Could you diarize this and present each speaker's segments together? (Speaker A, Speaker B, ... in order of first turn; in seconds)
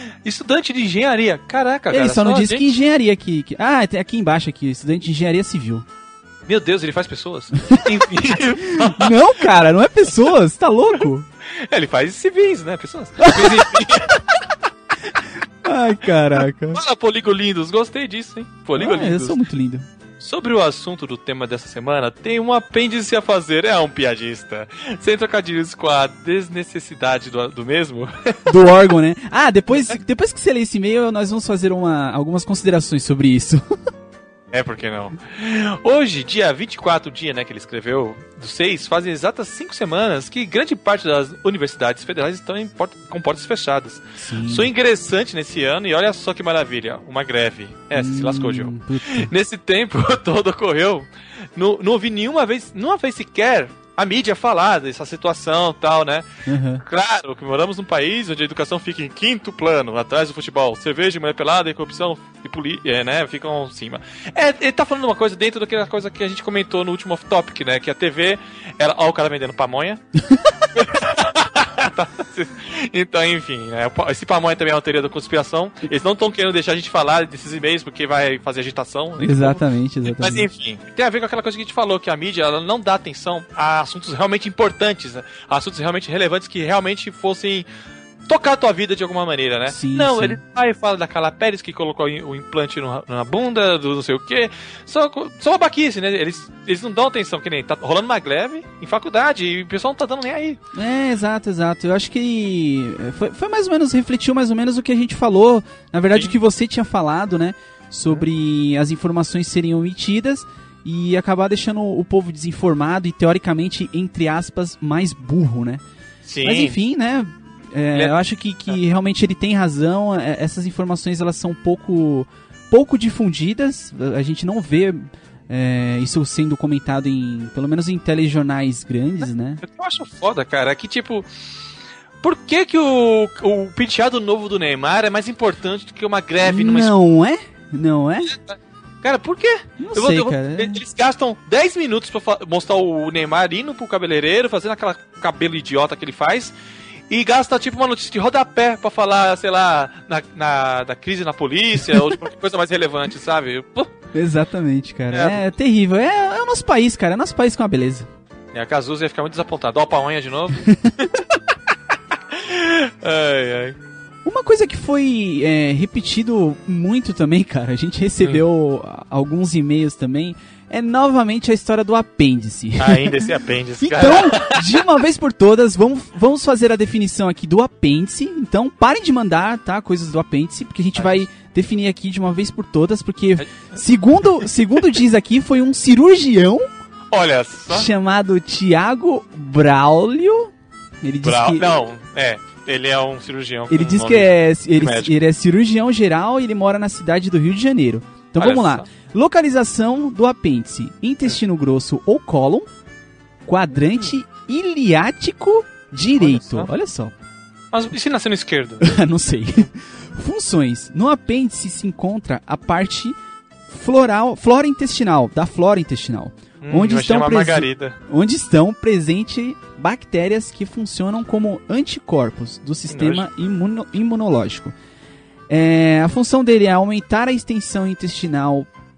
Speaker A: 0.2-2.7, 6.5-9.1, 11.6-14.2, 16.7-19.4, 20.2-28.5, 34.5-56.3, 56.8-70.0, 70.8-87.7, 88.3-100.6, 116.3-116.8, 129.6-131.2, 132.2-136.9, 138.3-146.5, 147.1-153.9, 155.1-155.4, 158.5-161.2, 162.3-163.8, 172.8-174.8, 180.9-181.3, 187.1-187.9, 191.2-195.1, 198.4-198.9, 206.2-206.7, 207.7-208.9, 216.6-218.0, 222.9-223.3
Speaker B: 1.9-5.8, 8.8-11.3, 13.2-13.7, 15.6-16.8, 18.8-19.9, 28.5-33.8, 44.2-44.7, 47.9-49.3, 56.5-56.8, 79.2-80.5, 89.7-90.4, 100.7-115.8, 116.4-129.6, 136.4-138.3, 139.8-140.8, 154.1-158.1, 164.2-186.7, 187.7-191.7, 193.7-202.7, 203.4-207.1, 208.8-213.2, 213.7-224.8, 225.5-228.7